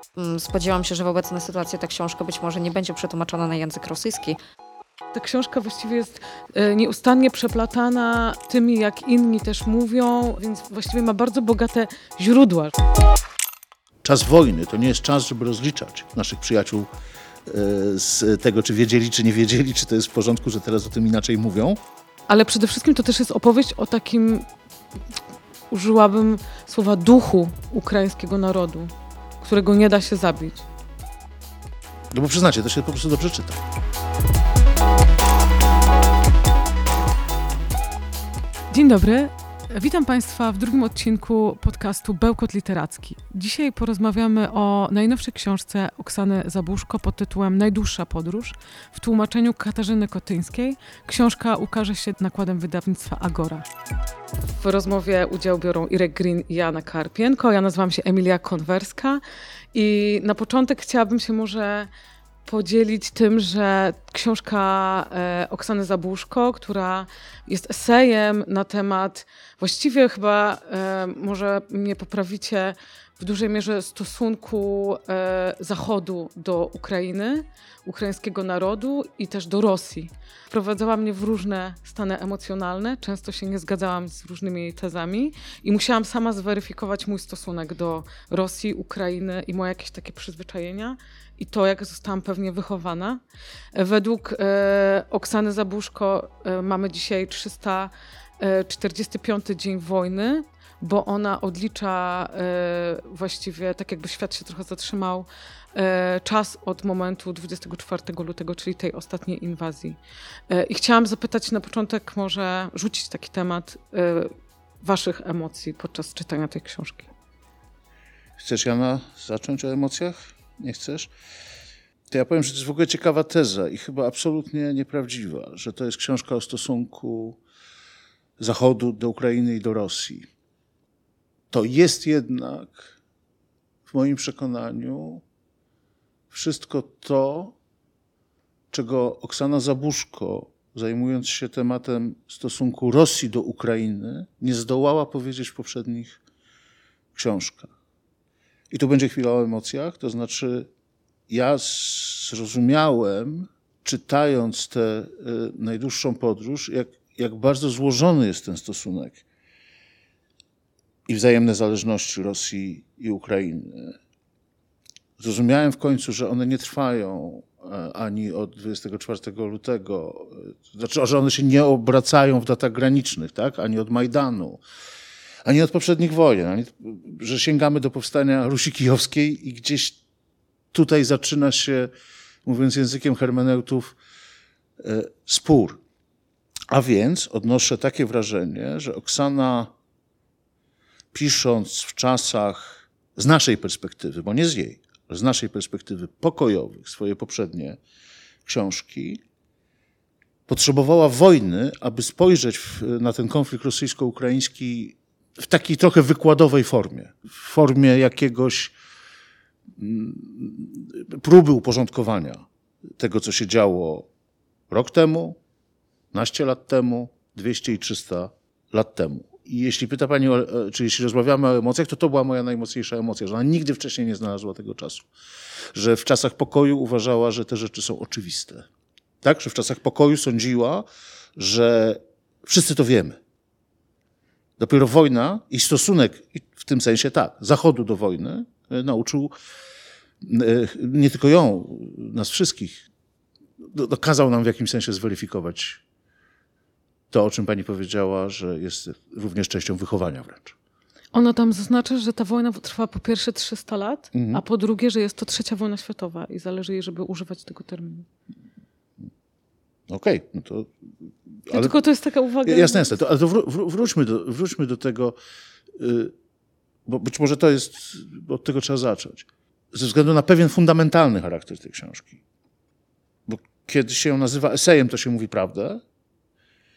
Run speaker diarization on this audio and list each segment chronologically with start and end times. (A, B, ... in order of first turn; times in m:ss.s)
0:00.2-0:04.4 A
0:05.1-0:12.8 B
0:14.0-0:16.9 C
0:17.4-0:21.8 C
0:22.3-0:24.5 B
0:25.7-0:30.6 B
0:32.1-0:33.6 C
0:38.7-0:53.6 B
0:54.6-0:59.2 B
0:59.7-1:01.9 B
1:02.4-1:33.2 B
1:33.7-1:57.1 B
1:58.4-2:01.1 C
2:02.1-2:07.4 C
2:08.4-2:10.3 C
2:11.5-2:12.9 C
2:13.9-2:15.2 C
2:16.3-2:17.6 C
2:18.7-2:26.2 C
2:27.1-2:27.7 C
2:28.7-2:30.7 C
2:31.3-2:39.2 C
2:41.1-2:44.0 C
2:45.2-2:54.6 C
2:55.4-3:00.0 C
3:00.7-3:01.9 C
3:02.4-3:04.0 C
3:04.8-3:05.8 C
3:06.7-3:09.7 C
3:11.1-3:17.8 C
3:18.4-3:19.2 C
3:20.5-3:28.7 C
3:29.8-3:32.4 C
3:33.0-3:34.1 C
3:34.7-3:35.4 C
3:36.1-3:45.1 C
3:45.7-3:48.6 C
3:49.2-3:53.2 C
3:54.6-3:59.3 C
4:00.2-4:02.8 C
4:03.7-4:05.8 C
4:07.1-4:10.5 C
4:11.1-4:18.0 B
4:14.1-4:14.4 C
4:19.9-4:20.7 C
4:21.4-4:21.7 C
4:21.5-4:22.9 B
4:22.4-4:25.2 C
4:25.7-4:26.1 C
4:26.8-4:32.2 C
4:33.3-4:35.8 C